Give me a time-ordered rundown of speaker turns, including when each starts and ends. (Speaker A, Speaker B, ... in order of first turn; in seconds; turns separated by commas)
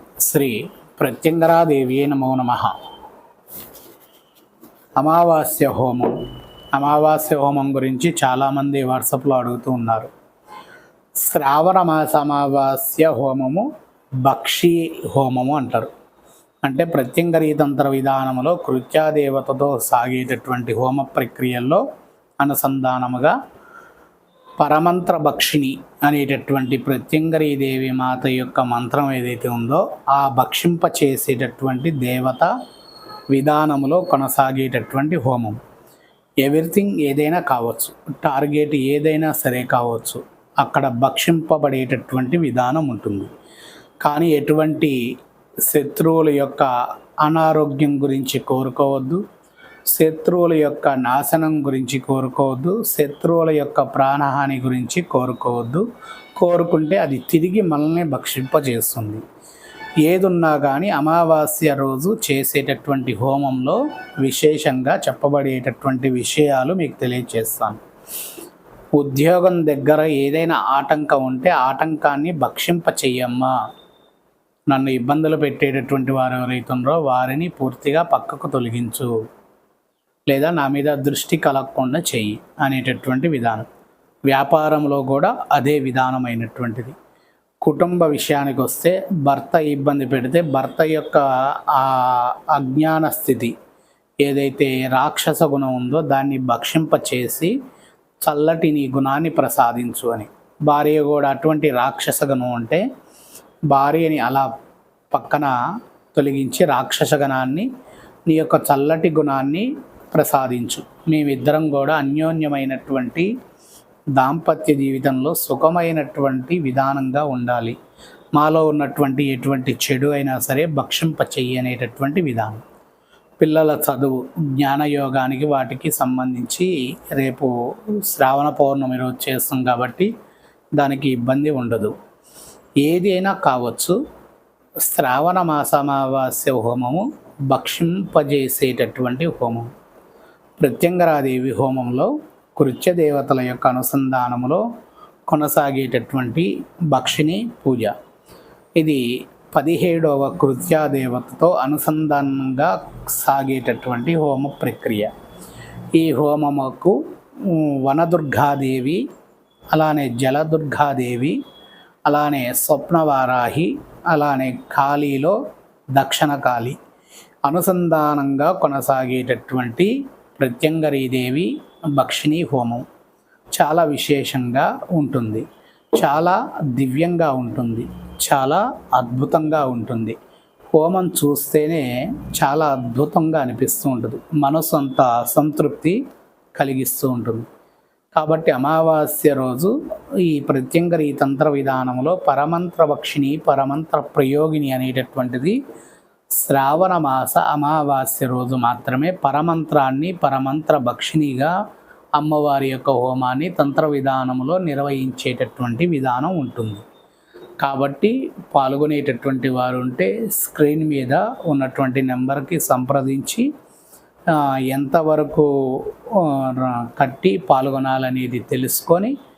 Speaker A: 0.2-2.7, Speaker A: 5.0-6.1, Speaker A: 6.7-10.1, Speaker A: 11.3-13.7, Speaker A: 14.2-15.9, Speaker A: 16.6-21.8, Speaker A: 22.4-23.3, Speaker A: 24.6-32.5, Speaker A: 33.3-35.6, Speaker A: 36.4-43.3, Speaker A: 44.0-45.0, Speaker A: 45.7-46.7, Speaker A: 47.2-49.2, Speaker A: 49.9-55.8, Speaker A: 56.4-59.2, Speaker A: 60.0-67.8, Speaker A: 69.0-73.5, Speaker A: 74.7-79.1, Speaker A: 80.3-83.7, Speaker A: 84.3-87.0, Speaker A: 87.6-93.5, Speaker A: 94.2-97.5, Speaker A: 98.2-102.8, Speaker A: 103.7-104.5, Speaker A: 105.1-105.5, Speaker A: 106.1-107.7, Speaker A: 108.3-113.3, Speaker A: 114.2-117.8, Speaker A: 118.4-122.6, Speaker A: 123.4-127.5, Speaker A: 128.1-130.1, Speaker A: 130.8-131.9, Speaker A: 132.8-134.0, Speaker A: 134.9-139.7, Speaker A: 140.6-144.6, Speaker A: 145.3-147.9, Speaker A: 148.8-155.1, Speaker A: 155.9-159.0, Speaker A: 159.7-161.4, Speaker A: 162.1-165.4, Speaker A: 165.9-166.8, Speaker A: 167.5-172.8, Speaker A: 173.6-175.4, Speaker A: 176.0-180.2, Speaker A: 180.7-186.0, Speaker A: 186.6-187.5, Speaker A: 188.2-189.7, Speaker A: 190.2-195.6, Speaker A: 196.4-201.5, Speaker A: 202.2-206.8, Speaker A: 207.6-213.5, Speaker A: 214.3-219.1